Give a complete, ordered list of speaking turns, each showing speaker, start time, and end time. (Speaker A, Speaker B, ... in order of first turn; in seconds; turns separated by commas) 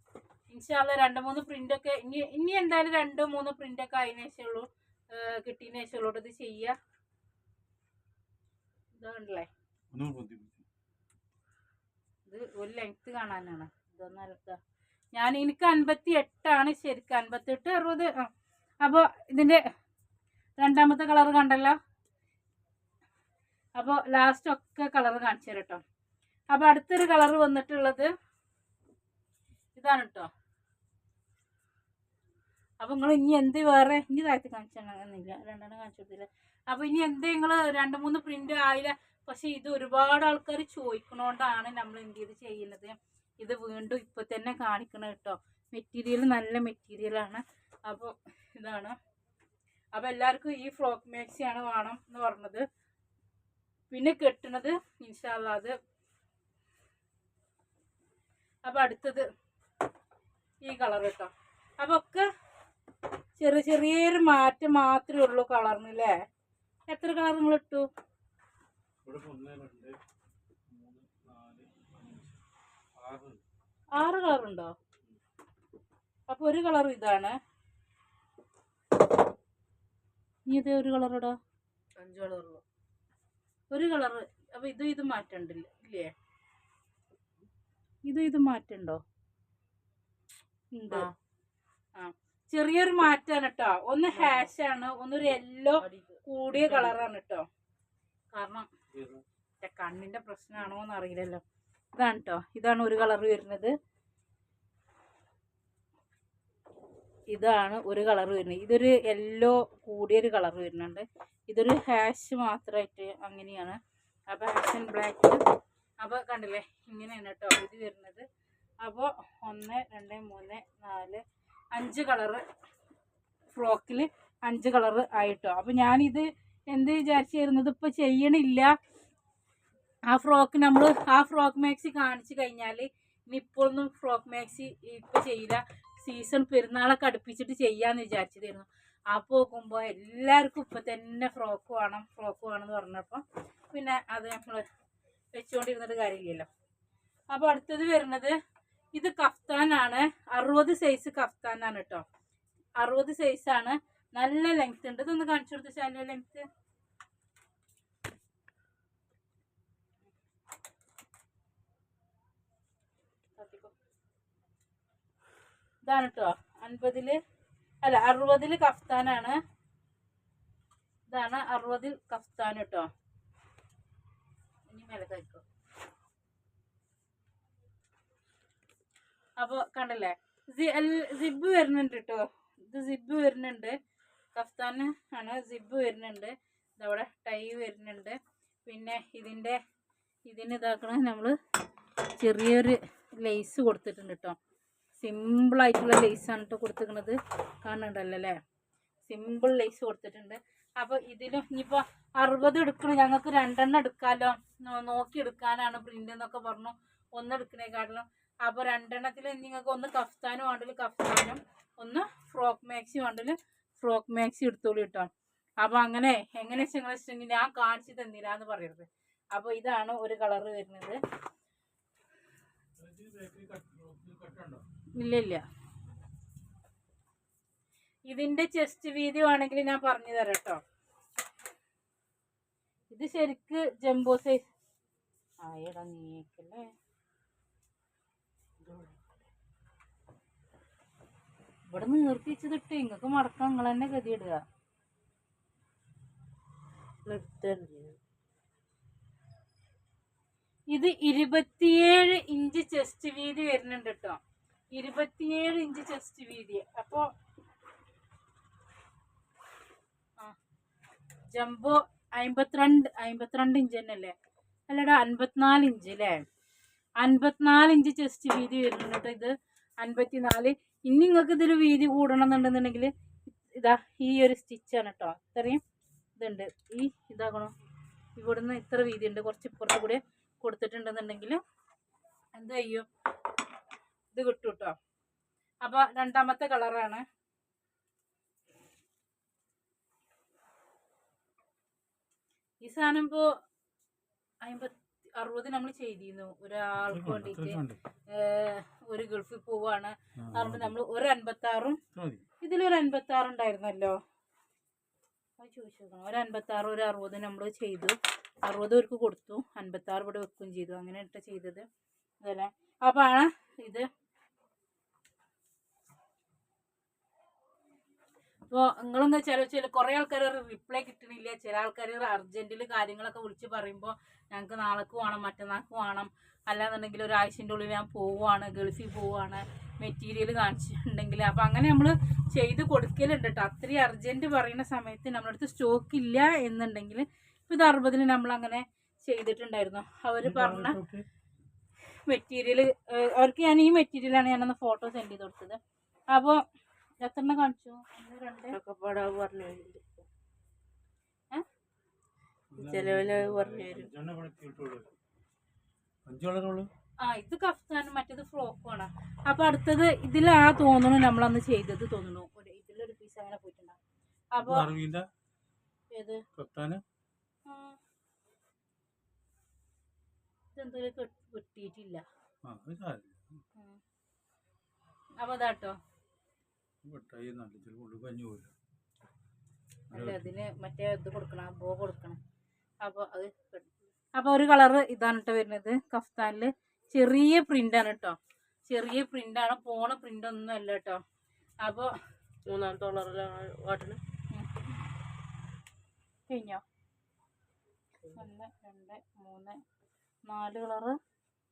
Speaker A: 0.5-6.8, Speaker A: 9.0-9.5, Speaker B: 9.9-10.6, Speaker A: 12.3-14.6, Speaker A: 15.2-18.3, Speaker A: 18.8-19.6, Speaker A: 20.6-21.8, Speaker A: 23.8-25.8, Speaker A: 26.5-28.1, Speaker A: 29.8-30.3, Speaker A: 32.8-48.9, Speaker A: 49.9-52.6, Speaker A: 53.9-55.7, Speaker A: 58.7-59.2, Speaker A: 60.6-62.3, Speaker A: 63.4-66.1, Speaker A: 66.9-67.9, Speaker B: 69.0-70.0, Speaker B: 70.7-72.4, Speaker B: 73.0-73.4, Speaker A: 74.0-74.7, Speaker A: 76.3-77.3, Speaker A: 80.5-81.4, Speaker C: 82.0-82.6, Speaker A: 83.7-86.1, Speaker A: 88.1-89.0, Speaker A: 90.7-91.1, Speaker C: 90.9-91.2, Speaker A: 92.0-97.5, Speaker C: 94.1-94.5, Speaker C: 95.8-97.0, Speaker A: 98.3-98.7, Speaker B: 98.9-99.2, Speaker A: 99.6-101.4, Speaker A: 102.0-103.7, Speaker A: 107.3-113.8, Speaker A: 114.3-115.4, Speaker A: 116.0-118.3, Speaker A: 118.8-121.2, Speaker A: 121.7-122.4, Speaker A: 123.5-128.7, Speaker A: 130.1-144.6, Speaker A: 145.3-146.5, Speaker A: 147.3-148.3, Speaker A: 149.0-152.0, Speaker A: 152.8-156.4, Speaker C: 163.4-163.7, Speaker A: 165.8-167.2, Speaker A: 167.8-169.4, Speaker A: 171.1-172.9, Speaker A: 174.7-175.4, Speaker A: 179.4-183.8, Speaker A: 184.3-189.6, Speaker A: 190.2-191.3, Speaker A: 192.2-194.4, Speaker A: 195.0-198.4, Speaker A: 199.1-215.1, Speaker A: 215.6-221.0, Speaker B: 222.8-224.6, Speaker A: 225.0-225.4, Speaker A: 228.1-230.6, Speaker A: 232.9-234.4, Speaker A: 235.4-236.7, Speaker C: 238.6-239.2, Speaker A: 241.7-244.4, Speaker C: 247.1-248.0, Speaker A: 250.7-254.2, Speaker A: 254.7-257.1, Speaker A: 261.3-264.1, Speaker A: 264.7-266.2, Speaker A: 267.0-275.6, Speaker A: 276.2-277.5, Speaker A: 278.2-281.4, Speaker A: 282.4-282.9, Speaker A: 284.1-284.8, Speaker A: 285.6-287.0, Speaker A: 292.6-293.3, Speaker A: 294.4-301.8, Speaker B: 296.9-297.8, Speaker B: 300.2-300.8, Speaker B: 301.9-302.2, Speaker A: 302.4-304.0, Speaker A: 305.4-311.6, Speaker A: 312.2-313.9, Speaker A: 318.5-340.8, Speaker B: 340.2-341.1, Speaker A: 342.1-345.6, Speaker A: 346.1-346.4, Speaker A: 347.0-348.6, Speaker C: 348.5-350.1, Speaker B: 352.5-354.9, Speaker C: 352.6-353.9, Speaker B: 356.1-356.7, Speaker A: 357.0-363.8, Speaker A: 364.3-364.7, Speaker B: 364.4-365.1, Speaker A: 365.9-366.2, Speaker B: 366.4-366.8, Speaker A: 367.5-367.8, Speaker A: 370.6-372.0, Speaker B: 372.4-373.4, Speaker A: 375.2-375.8, Speaker B: 376.8-378.5, Speaker A: 379.9-382.2, Speaker B: 379.9-380.4, Speaker A: 382.8-388.2, Speaker A: 388.7-391.0, Speaker A: 391.6-391.9, Speaker C: 392.5-394.0, Speaker A: 394.3-394.7, Speaker A: 396.3-396.6, Speaker A: 398.1-399.6, Speaker A: 400.3-401.0